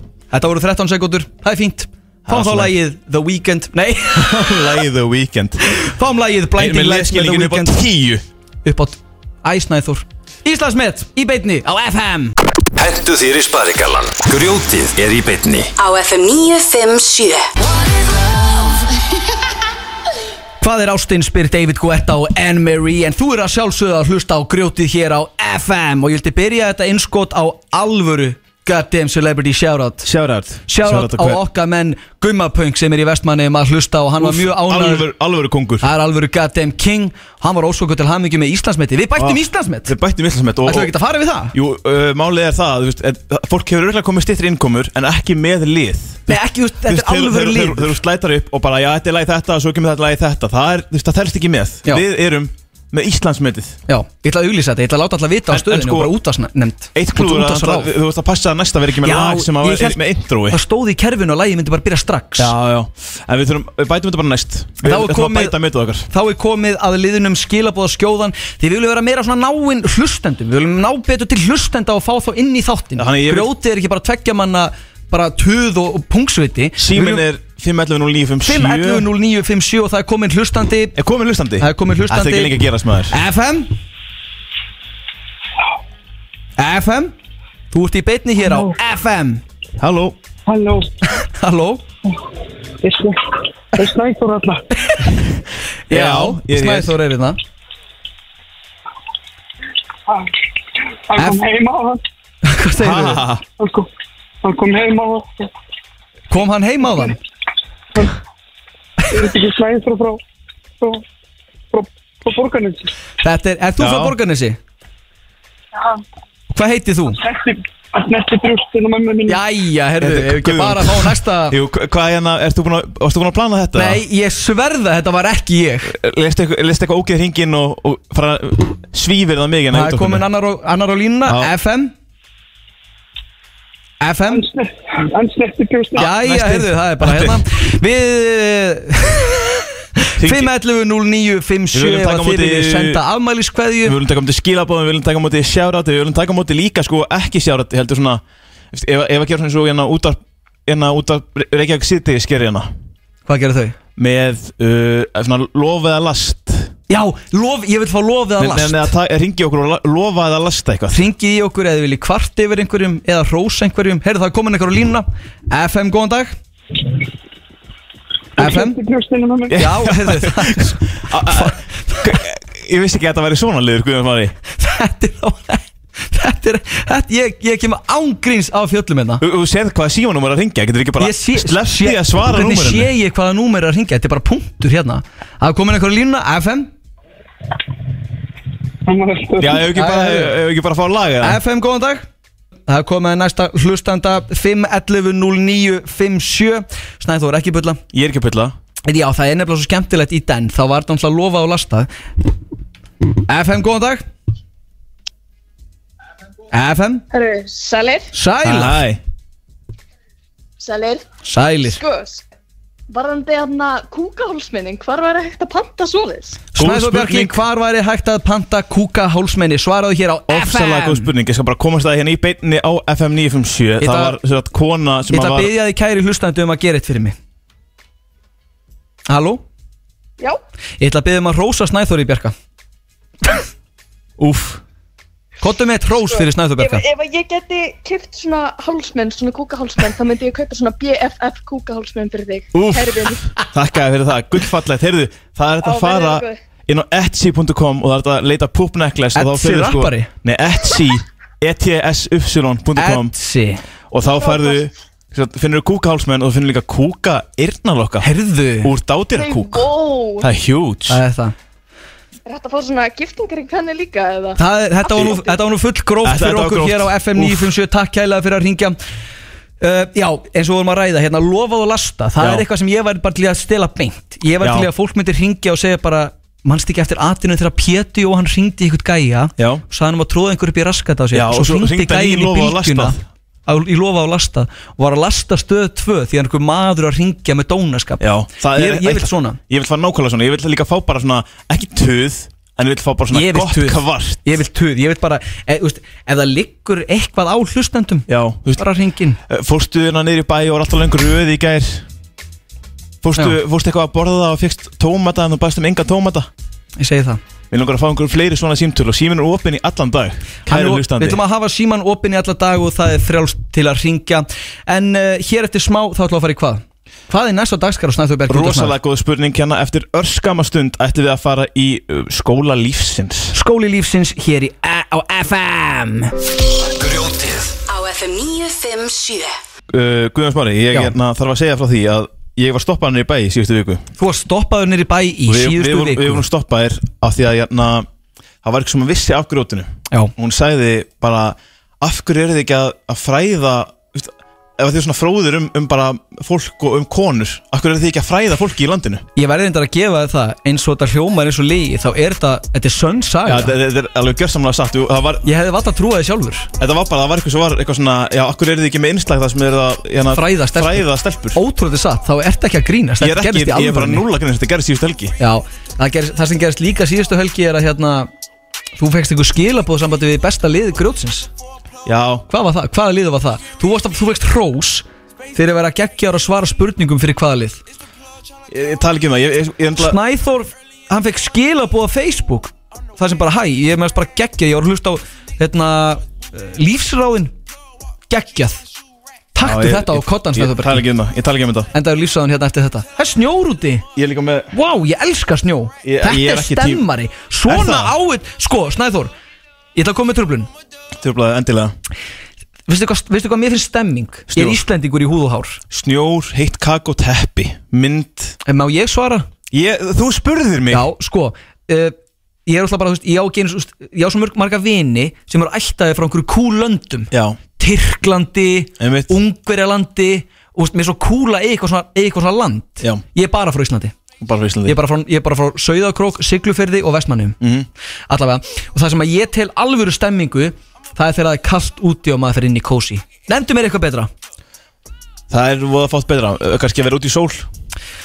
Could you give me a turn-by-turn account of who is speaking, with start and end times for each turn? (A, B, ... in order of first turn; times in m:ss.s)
0:00.3-0:04.8 A
0:02.2-0:02.8 B
0:04.4-0:05.6 B
0:05.7-0:07.8 A
0:06.6-0:08.2 B
0:08.6-0:12.3 A
0:12.8-0:15.7 C
0:15.8-0:17.4 D
0:20.6-0:30.1 A
0:30.0-0:31.4 B
0:30.7-0:35.1 A
0:34.2-0:35.8 B
0:35.8-0:39.9 A
0:39.2-0:40.9 B
0:40.7-0:41.6 A
0:41.5-0:53.8 B
0:46.3-0:48.0 A
0:53.9-0:57.9 A
0:55.5-0:56.2 B
0:57.0-1:00.6 B
0:59.0-1:02.5 A
1:02.4-1:06.1 B
1:04.8-1:05.6 A
1:06.1-1:17.2 A
1:13.0-1:13.5 B
1:16.8-1:19.1 B
1:18.4-1:21.0 A
1:21.0-1:23.2 B
1:21.6-1:22.6 A
1:23.1-1:23.7 A
1:26.6-1:27.1 A
1:27.7-1:29.4 A
1:28.5-1:28.8 E
1:29.8-1:30.2 B
1:30.5-1:30.9 E
1:31.2-1:31.8 A
1:32.8-1:33.2 E
1:33.7-1:34.6 E
1:35.9-1:37.4 A
1:35.9-1:37.0 B
1:41.1-1:42.0 E
1:42.4-1:43.2 A
1:42.8-1:43.4 B
1:43.6-1:43.9 E
1:44.4-1:45.5 E
1:46.3-1:47.2 A
1:49.1-1:50.2 E
1:51.7-1:52.9 E
1:53.2-1:54.6 A
1:53.8-1:54.2 B
1:56.5-1:57.2 A
1:57.1-1:59.4 E
1:59.3-2:01.6 A
2:00.0-2:04.0 B
2:03.8-2:06.0 A
2:05.9-2:10.2 B
2:09.7-2:11.9 A
2:11.3-2:11.5 B
2:14.0-2:14.4 A
2:14.3-2:16.2 E
2:16.0-2:24.0 A
2:16.0-2:17.4 B
2:20.2-2:20.5 B
2:21.7-2:23.0 B
2:23.8-2:32.7 B
2:33.3-2:33.8 A
2:34.0-2:36.7 B
2:36.9-2:38.9 A
2:38.4-2:41.0 B
2:40.9-2:46.4 A
2:48.4-2:49.7 E
2:48.4-2:48.8 A
2:49.5-2:52.2 A
2:49.5-2:54.3 B
2:54.6-2:59.2 A
2:59.2-3:02.9 B
3:01.0-3:06.7 A
3:08.9-3:09.7 E
3:09.4-3:11.4 B
3:09.7-3:10.4 A
3:11.2-3:12.1 A
3:12.7-3:17.8 A
3:17.9-3:18.6 B
3:18.9-3:21.9 A
3:23.3-3:24.0 A
3:26.5-3:27.0 A
3:27.1-3:28.1 F
3:28.1-3:28.8 A
3:28.4-3:29.0 B
3:30.6-3:31.1 F
3:31.2-3:31.8 A
3:31.6-3:32.2 F
3:32.9-3:36.5 F
3:36.5-3:41.1 A
3:36.6-3:37.4 B
3:40.3-3:45.5 B
3:43.8-3:44.2 A
3:45.1-3:47.2 A
3:49.1-3:49.4 A
3:50.8-3:52.3 A
3:54.2-3:54.6 B
3:55.4-3:56.8 A
3:56.1-4:03.3 F
4:02.5-4:13.1 B
4:05.6-4:06.4 F
4:09.2-4:10.1 A
4:12.8-4:13.6 A
4:13.9-4:18.1 B
4:14.2-4:14.6 F
4:18.0-4:18.7 A
4:18.6-4:21.0 B
4:19.1-4:20.3 F
4:20.9-4:21.3 A
4:22.3-4:24.4 F
4:24.4-4:28.8 A
4:24.9-4:25.2 B
4:25.0-4:25.2 F
4:26.0-4:27.5 B
4:29.6-4:49.4 A
4:34.4-4:34.7 B
4:39.4-4:39.6 B
4:41.1-4:43.0 B
4:48.0-4:54.2 B
4:53.1-4:59.2 A
4:58.1-4:58.6 B
4:59.3-5:01.9 B
5:03.0-5:06.3 B
5:06.8-5:07.2 A
5:07.5-5:11.2 B
5:10.5-5:18.8 A
5:18.3-5:23.4 B
5:23.3-5:26.1 A
5:26.8-5:27.5 C
5:27.7-5:29.3 D
5:29.7-5:33.8 B
5:34.0-5:36.2 A
5:35.3-5:37.9 B
5:38.4-5:49.0 B
5:49.2-5:53.5 A
5:53.2-5:55.3 B
5:55.2-5:56.5 A
5:56.6-6:01.4 B
6:00.1-6:04.0 A
6:03.0-6:05.2 B
6:05.2-6:08.1 A
6:08.8-6:11.3 A
6:11.8-6:12.3 B
6:12.3-6:17.6 A
6:18.5-6:20.0 B
6:19.8-6:27.3 A
6:28.1-6:28.6 A
6:29.3-6:30.8 A
6:29.4-6:31.7 B
6:31.7-6:33.8 A
6:34.0-6:34.5 B
6:34.5-6:39.1 A
6:35.8-6:36.8 B
6:37.5-6:38.0 B
6:39.8-6:40.5 A
6:41.0-6:41.7 B
6:42.7-6:45.6 A
6:44.3-6:44.6 B
6:45.7-6:48.4 B
6:48.5-6:49.3 A
6:49.5-6:50.9 B
6:50.7-6:52.0 A
6:52.5-7:03.9 A
6:57.1-6:57.4 B
6:58.8-6:59.1 B
7:04.2-7:04.8 B
7:04.6-7:07.4 A
7:07.4-7:07.7 B
7:08.1-7:14.1 A
7:15.3-7:17.5 B